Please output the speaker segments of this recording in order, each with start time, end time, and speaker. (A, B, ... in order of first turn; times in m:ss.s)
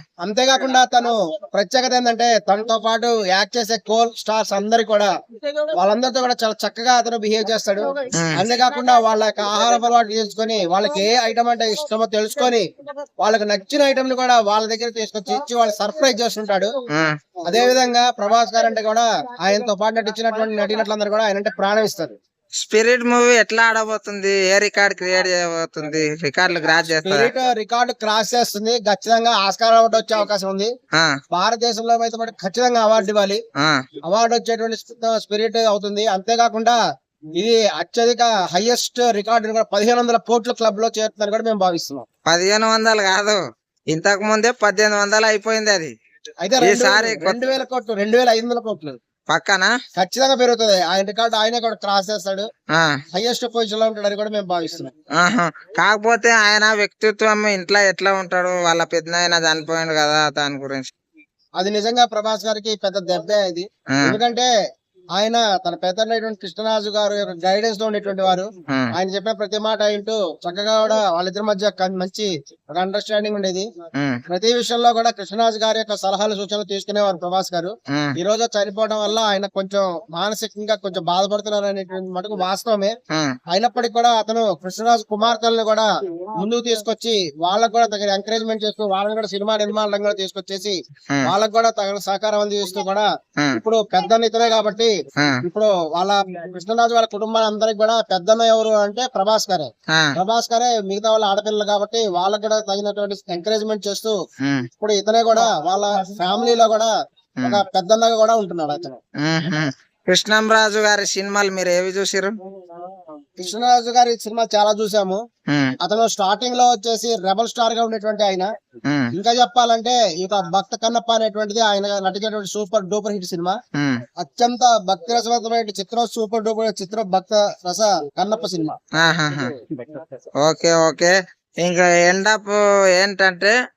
0:00.2-0:05.1 A
0:05.7-0:12.7 A
0:08.1-0:08.4 B
0:13.2-0:16.7 A
0:16.9-0:17.2 B
0:17.4-0:22.2 A
0:22.6-0:27.3 B
0:26.9-0:30.7 A
0:31.3-0:33.4 A
0:34.0-0:36.8 A
0:37.4-0:42.1 A
0:42.3-0:45.9 B
0:46.4-0:49.0 A
0:46.6-0:47.4 B
0:49.3-0:49.7 B
0:50.0-0:52.5 A
0:52.7-0:53.0 B
0:53.1-0:54.9 A
0:55.2-1:00.9 B
1:01.6-1:04.5 A
1:05.2-1:13.7 A
1:14.3-1:23.0 A
1:23.1-1:23.4 B
1:23.5-1:34.9 A
1:35.4-1:44.2 A
1:44.8-1:46.9 A
1:47.4-1:49.0 A
1:49.2-1:52.3 B
1:53.4-1:55.2 A
1:55.5-1:55.8 B
1:55.8-1:58.5 A
1:59.1-2:03.6 A
2:03.8-2:04.0 B
2:04.2-2:08.8 A
2:09.0-2:09.5 B
2:10.4-2:13.5 B